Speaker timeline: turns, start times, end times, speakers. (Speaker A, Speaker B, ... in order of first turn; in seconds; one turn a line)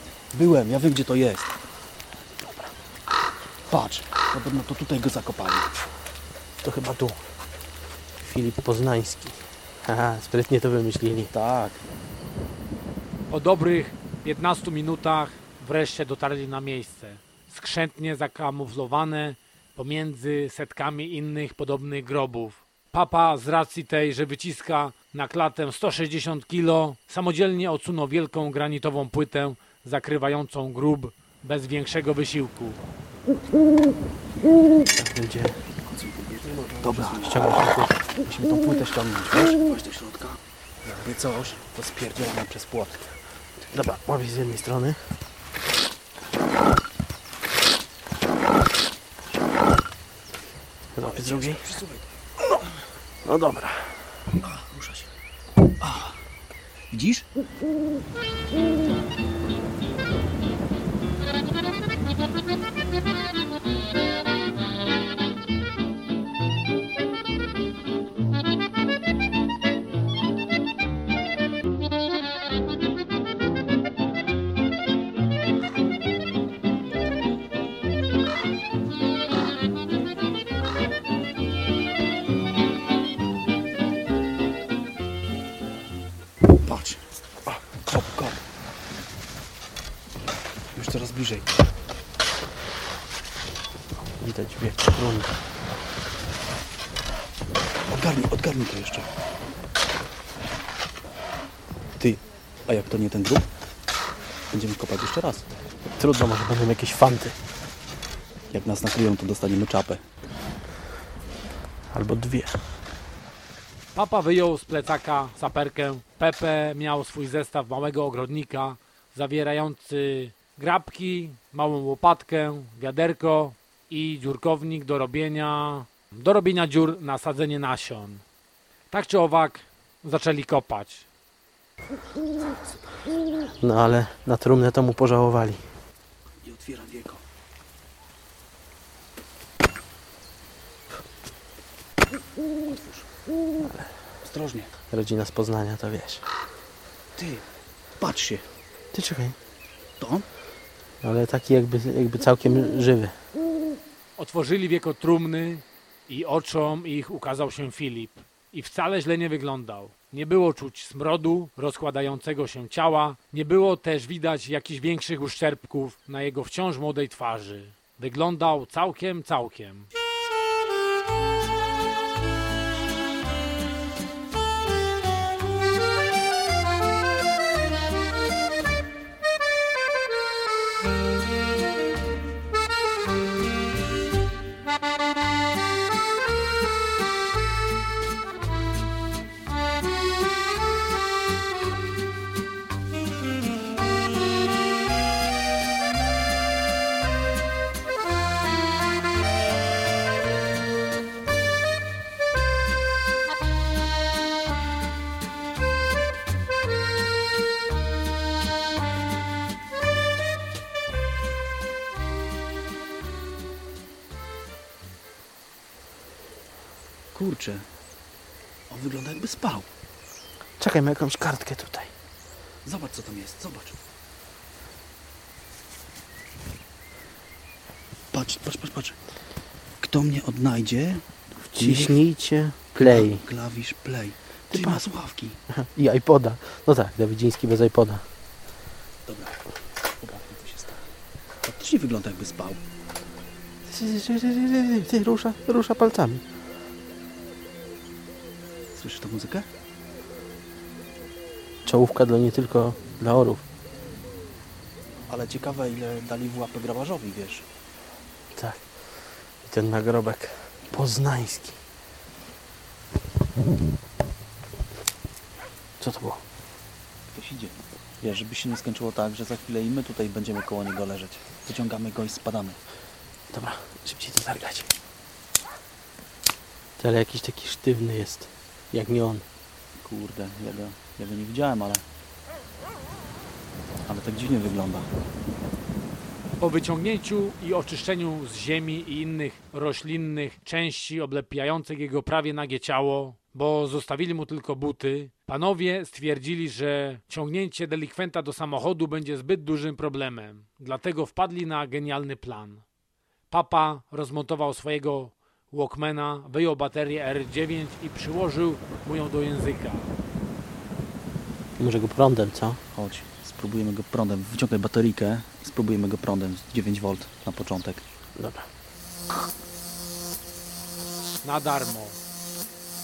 Speaker A: 0.3-1.6
Speaker A: 3.7-5.7
Speaker B: 6.6-7.2
Speaker B: 8.2-11.3
Speaker A: 11.3-11.8
Speaker C: 13.3-32.8
Speaker B: 34.9-35.7
Speaker A: 35.8-43.1
Speaker B: 36.4-38.0
Speaker B: 43.7-45.0
Speaker B: 50.9-51.8
Speaker A: 51.0-52.1
Speaker B: 53.2-54.2
Speaker A: 54.4-55.1
Speaker A: 55.8-56.2
Speaker A: 56.9-57.3
Speaker A: 86.5-88.4
Speaker A: 90.8-91.5
Speaker B: 94.0-95.3
Speaker A: 97.9-99.1
Speaker A: 102.0-103.5
Speaker A: 104.5-105.5
Speaker B: 106.0-107.4
Speaker A: 108.5-110.0
Speaker B: 111.9-112.6
Speaker C: 114.0-128.2
Speaker C: 128.9-131.1
Speaker B: 133.6-135.7
Speaker A: 136.4-137.2
Speaker A: 142.7-143.1
Speaker B: 143.6-144.0
Speaker A: 144.2-144.7
Speaker B: 144.9-146.3
Speaker A: 147.2-147.5
Speaker A: 148.0-148.5
Speaker B: 148.9-149.4
Speaker A: 150.0-150.3
Speaker B: 151.0-153.2
Speaker C: 154.2-169.9
Speaker A: 217.1-217.7
Speaker A: 218.7-219.7
Speaker B: 220.6-221.9
Speaker A: 222.7-223.8
Speaker A: 228.1-229.0
Speaker A: 229.8-232.0
Speaker B: 231.5-233.2
Speaker A: 232.8-235.4
Speaker B: 234.5-234.8
Speaker B: 235.5-238.1
Speaker A: 239.1-239.4
Speaker A: 240.0-240.8
Speaker A: 241.4-242.6
Speaker B: 243.7-246.2
Speaker A: 248.7-249.5
Speaker B: 251.7-253.4
Speaker A: 255.1-257.5
Speaker B: 258.3-261.6
Speaker B: 265.8-266.2
Speaker A: 267.1-272.6
Speaker B: 273.3-274.7
Speaker B: 276.8-279.2
Speaker A: 279.8-281.8
Speaker A: 283.9-284.9
Speaker C: 286.4-302.6
Speaker C: 303.3-309.9
Speaker B: 311.6-312.6
Speaker A: 312.7-317.8
Speaker B: 318.2-318.5
Speaker C: 321.2-322.0